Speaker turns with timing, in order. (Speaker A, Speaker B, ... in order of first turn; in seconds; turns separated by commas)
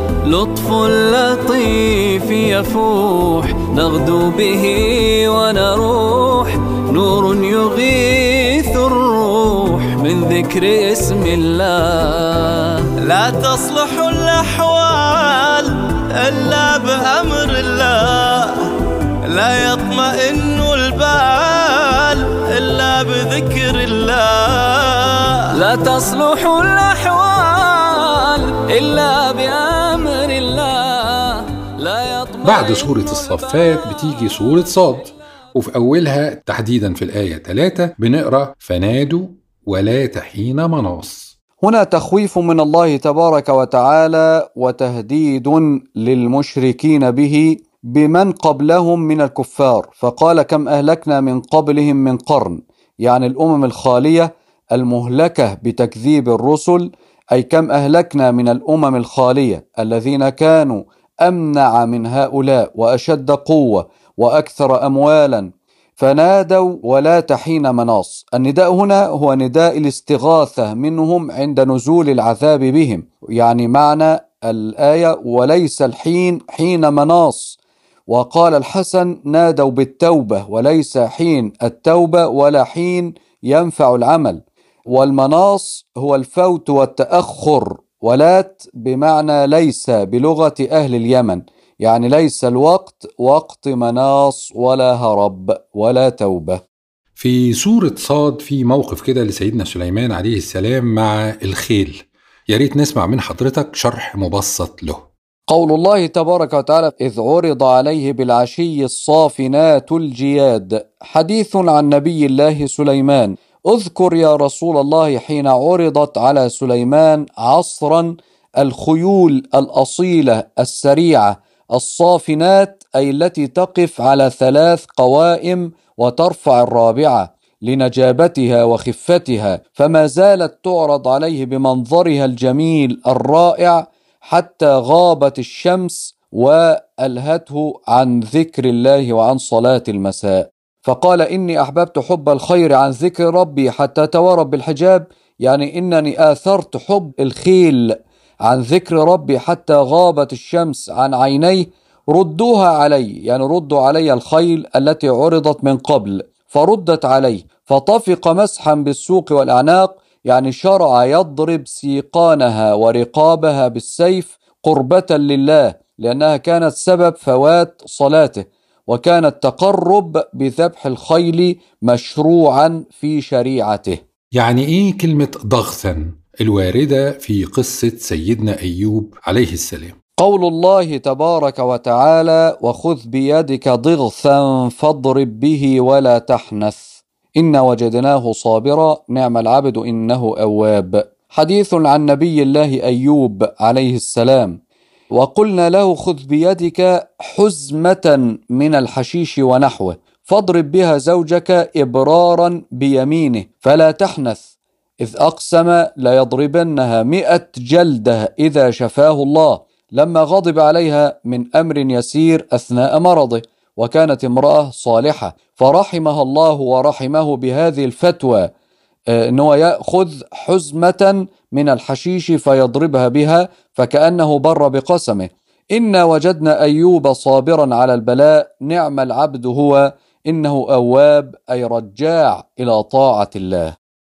Speaker A: 0.2-12.9, Speaker B: 13.0-18.7, Speaker B: 19.3-25.6, Speaker A: 25.5-35.0, Speaker C: 32.4-41.3, Speaker D: 41.6-77.6, Speaker D: 78.1-84.4, Speaker D: 84.9-96.6, Speaker C: 97.2-105.0, Speaker D: 105.5-147.9, Speaker D: 148.5-174.0, Speaker C: 174.3-180.0, Speaker D: 180.2-194.6, Speaker D: 195.2-204.5, Speaker D: 205.0-218.5, Speaker D: 219.1-233.8